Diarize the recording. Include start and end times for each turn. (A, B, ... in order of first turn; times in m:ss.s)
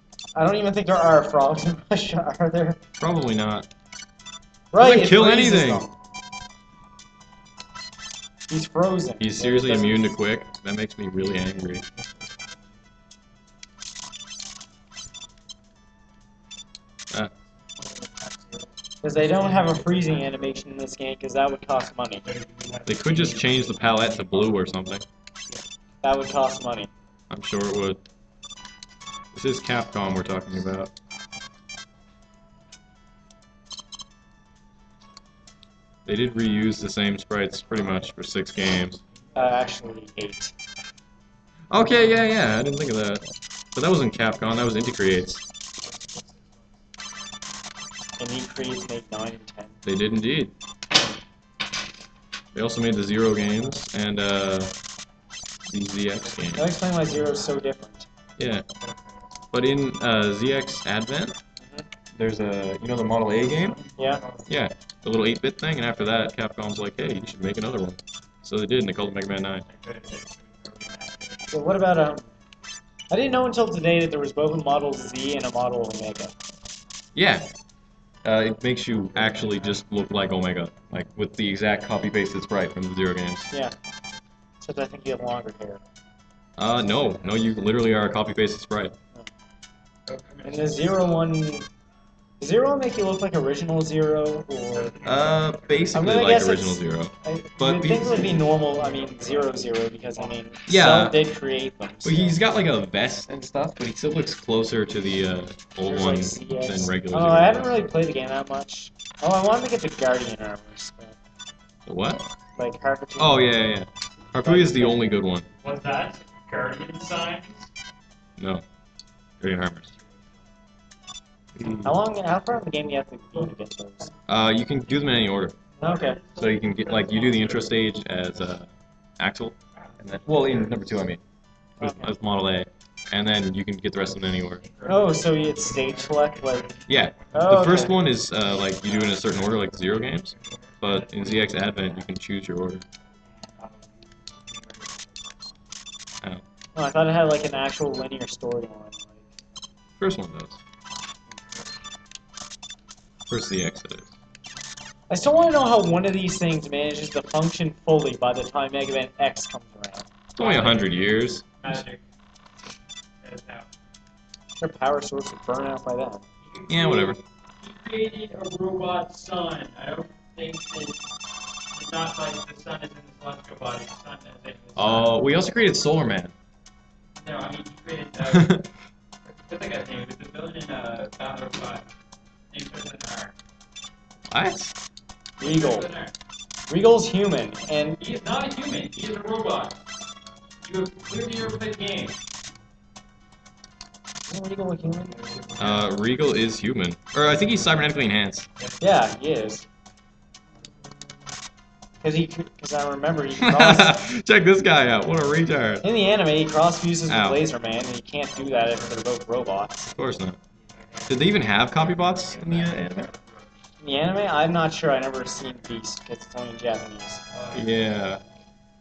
0:00.3-0:02.8 A
0:03.0-0:03.7 B
0:04.7-0:05.9 A
0:04.8-0:05.9 B
0:08.5-0:10.1 A
0:09.2-0:11.8 B
0:12.0-0:12.7 C
0:17.8-0:18.7 C
0:19.0-0:22.2 A
0:19.2-0:20.5 C
0:22.2-0:24.5 C
0:22.8-0:25.0 B
0:26.0-0:26.9 A
0:27.3-0:28.0 B
0:29.3-0:30.9 B
0:36.0-0:39.0 B
0:39.3-0:40.5 A
0:41.7-0:45.4 B
0:48.2-0:49.7 A
0:49.8-0:50.5 B
0:52.5-0:54.7 B
0:55.7-0:56.7 B
0:56.6-0:58.1 A
0:58.4-0:58.6 B
0:59.5-1:01.4 B
1:01.6-1:01.8 A
1:02.2-1:03.8 B
1:03.5-1:04.4 C
1:04.0-1:04.2 A
1:04.5-1:09.6 B
1:09.7-1:11.5 C
1:11.5-1:12.3 A
1:13.1-1:16.3 A
1:17.1-1:17.5 B
1:18.2-1:23.5 B
1:24.6-1:25.8 A
1:26.6-1:28.9 B
1:30.1-1:30.9 C
1:30.4-1:31.7 A
1:32.4-1:35.0 A
1:34.8-1:35.9 C
1:35.0-1:38.4 B
1:35.9-1:42.4 A
1:38.2-1:39.7 C
1:40.7-1:41.2 B
1:42.0-1:47.7 B
1:45.8-1:51.2 A
1:51.8-1:52.3 B
1:52.6-1:53.5 A
1:53.2-1:55.5 B
1:54.4-1:55.2 A
1:55.5-1:57.7 C
1:58.4-1:58.6 B
1:59.4-1:59.9 B
2:01.6-2:01.9 B
2:01.8-2:04.1 A
2:04.3-2:05.6 B
2:05.7-2:07.8 C
2:05.8-2:06.2 A
2:06.4-2:11.2 B
2:09.8-2:11.1 C
2:11.8-2:12.1 A
2:11.8-2:14.6 B
2:14.1-2:18.0 C
2:14.8-2:16.7 A
2:16.9-2:22.8 B
2:17.3-2:17.9 A
2:18.6-2:22.0 C
2:23.3-2:25.5 C
2:26.7-2:29.3 A
2:30.0-2:30.6 B
2:33.3-2:34.1 B
2:35.1-2:40.1 A
2:40.4-2:41.7 B
2:40.4-2:42.0 C
2:43.2-2:43.7 C
2:44.6-2:46.2 A
2:46.4-2:51.0 C
2:46.7-2:47.2 B
2:51.7-2:55.2 C
2:54.7-2:56.3 B
2:57.2-2:58.6 C
2:58.2-2:58.7 B
2:59.3-3:01.9 C
3:02.5-3:03.3 C
3:04.3-3:04.7 B
3:05.4-3:05.9 A
3:05.4-3:06.1 C
3:06.7-3:08.1 A
3:08.0-3:09.8 C
3:10.6-3:12.2 C
3:14.3-3:15.2 A
3:15.2-3:15.9 C
3:15.6-3:18.5 B
3:18.8-3:19.6 A
3:22.0-3:24.1 A
3:23.4-3:25.8 B
3:25.8-3:29.9 A
3:27.1-3:27.4 B
3:28.3-3:29.1 C
3:30.0-3:30.4 B
3:30.6-3:33.4 C
3:31.1-3:33.1 B
3:33.8-3:37.2 A
3:37.2-3:38.2 C
3:37.5-3:38.2 B